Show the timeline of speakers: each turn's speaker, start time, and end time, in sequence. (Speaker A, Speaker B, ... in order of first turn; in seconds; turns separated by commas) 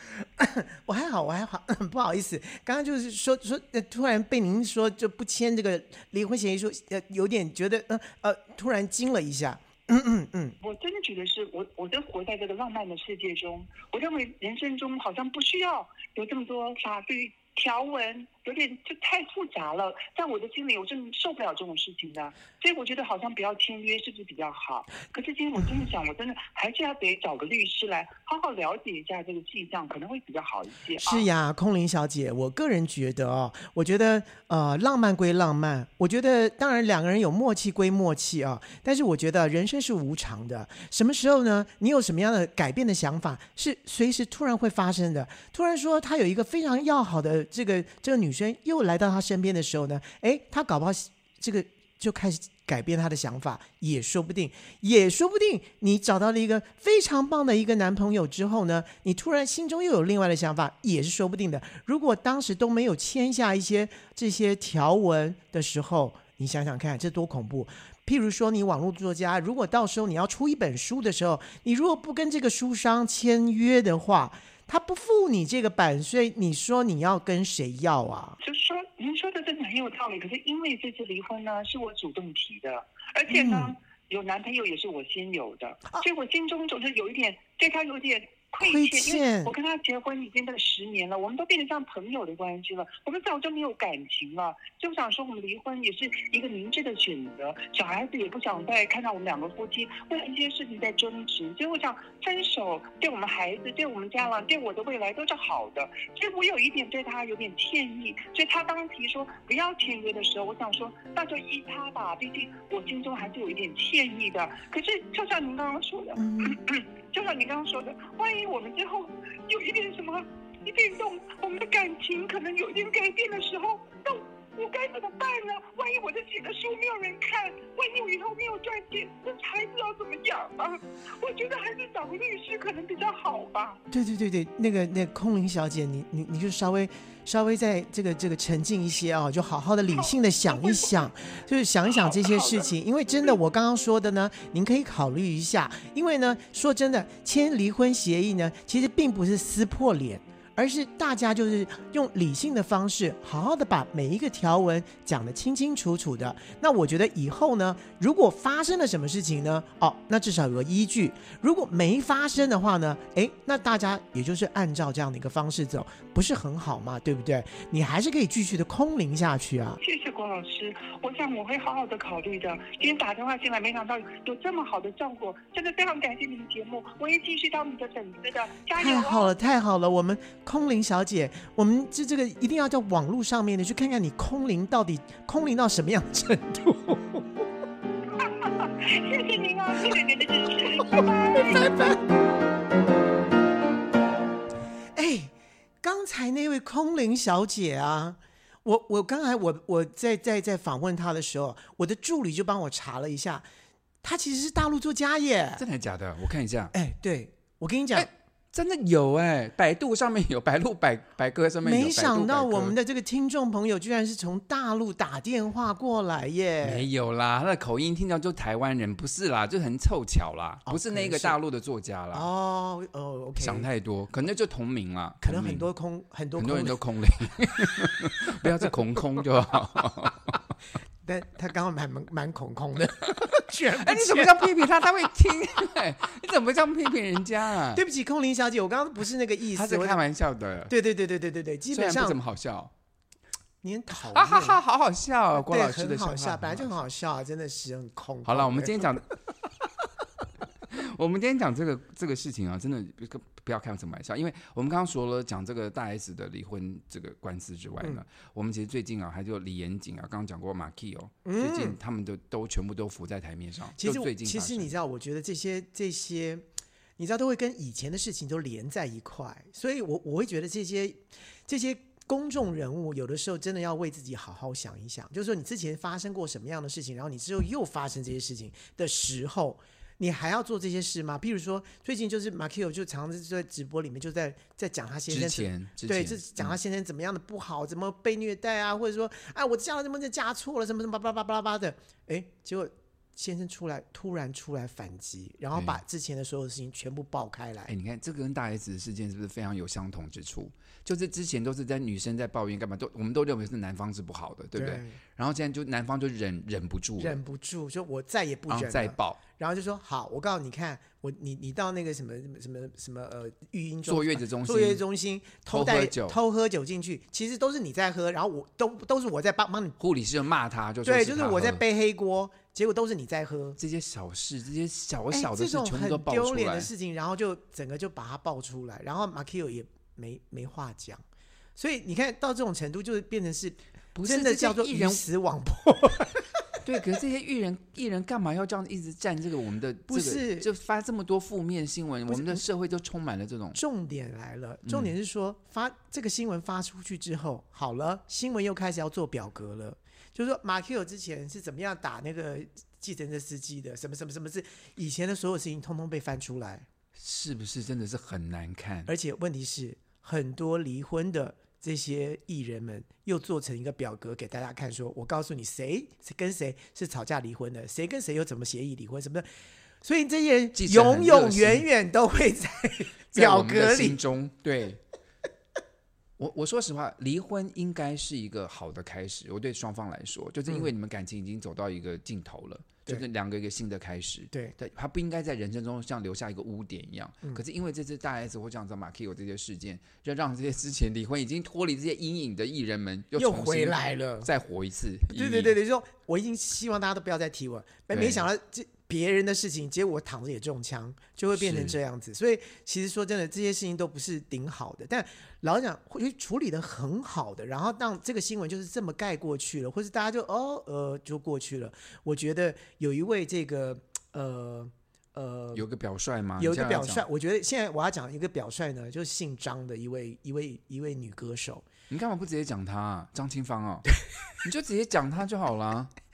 Speaker A: 0.2-10.6, Speaker B: 10.6-31.3, Speaker A: 31.0-78.4, Speaker B: 78.4-133.8, Speaker A: 83.3-83.7, Speaker A: 88.6-89.5, Speaker A: 116.2-116.6, Speaker A: 133.9-169.8, Speaker B: 139.9-141.1, Speaker B: 141.9-142.7, Speaker B: 169.8-179.3, Speaker A: 178.8-187.4, Speaker B: 188.2-192.0, Speaker A: 191.3-192.0, Speaker A: 194.9-203.4, Speaker A: 204.0-205.6, Speaker C: 205.6-206.7, Speaker A: 206.7-208.1, Speaker C: 207.9-212.8, Speaker A: 211.6-216.8, Speaker C: 216.6-222.3, Speaker A: 220.7-221.4, Speaker A: 222.1-223.7, Speaker C: 223.4-225.7, Speaker A: 225.2-226.8, Speaker C: 226.4-230.4, Speaker A: 231.0-234.4, Speaker C: 233.7-237.8, Speaker A: 237.7-240.0, Speaker C: 239.5-240.7, Speaker A: 240.7-242.2, Speaker C: 241.7-242.7, Speaker A: 243.6-244.6, Speaker C: 244.1-246.8, Speaker A: 245.3-248.9, Speaker C: 248.2-249.1, Speaker C: 250.7-264.7, Speaker A: 261.2-261.8, Speaker A: 263.8-266.5, Speaker A: 267.0-297.7, Speaker C: 285.1-286.6, Speaker C: 295.5-295.8, Speaker C: 297.7-307.2, Speaker A: 304.5-305.0, Speaker A: 307.0-319.8, Speaker C: 308.5-309.2, Speaker C: 313.9-314.8, Speaker C: 315.5-316.2, Speaker C: 319.8-321.6, Speaker A: 320.8-323.6, Speaker C: 323.6-326.7, Speaker A: 325.1-331.0, Speaker A: 331.6-336.5, Speaker C: 333.9-335.0, Speaker C: 336.6-343.6, Speaker A: 339.9-340.5, Speaker A: 342.1-342.4, Speaker A: 343.5-356.7, Speaker C: 344.7-344.9, Speaker C: 356.9-358.9, Speaker A: 358.9-369.3, Speaker A: 369.8-374.0, Speaker C: 370.5-371.7, Speaker C: 373.1-374.8, Speaker C: 376.2-395.6, Speaker A: 393.1-394.3, Speaker A: 395.1-415.6, Speaker C: 397.9-398.3, Speaker C: 401.3-401.8, Speaker C: 415.5-417.1, Speaker A: 416.4-421.7, Speaker C: 421.9-423.9, Speaker C: 424.4-425.9